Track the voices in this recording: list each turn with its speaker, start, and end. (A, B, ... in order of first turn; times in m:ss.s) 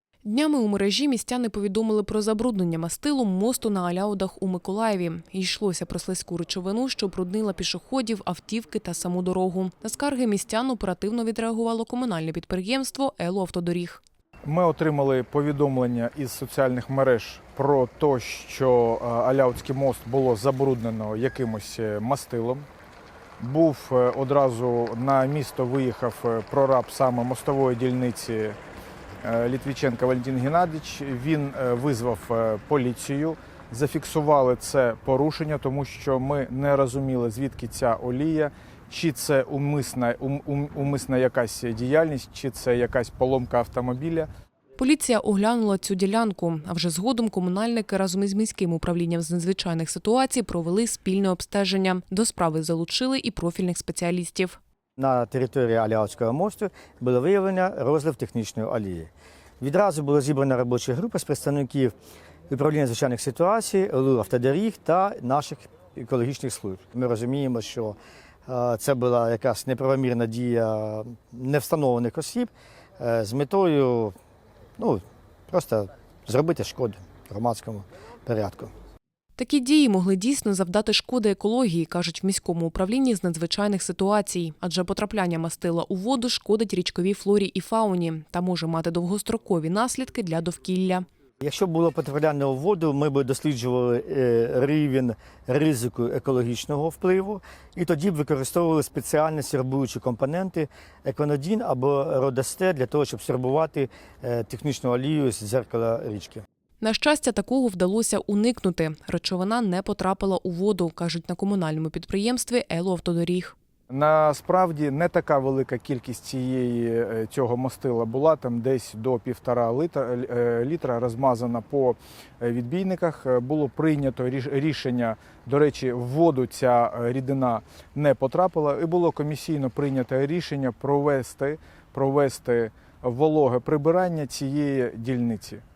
0:00.2-0:14.0 A
0:14.4-0:22.7 B
0:23.4-0:28.6 B
0:29.2-0:44.3 B
0:44.8-0:54.6 A
0:55.0-1:01.9 C
1:02.5-1:08.0 C
1:08.5-1:14.1 C
1:14.8-1:18.7 C
1:19.4-1:31.0 A
1:31.4-1:46.4 C
1:46.8-1:53.5 A
1:53.9-2:15.6 B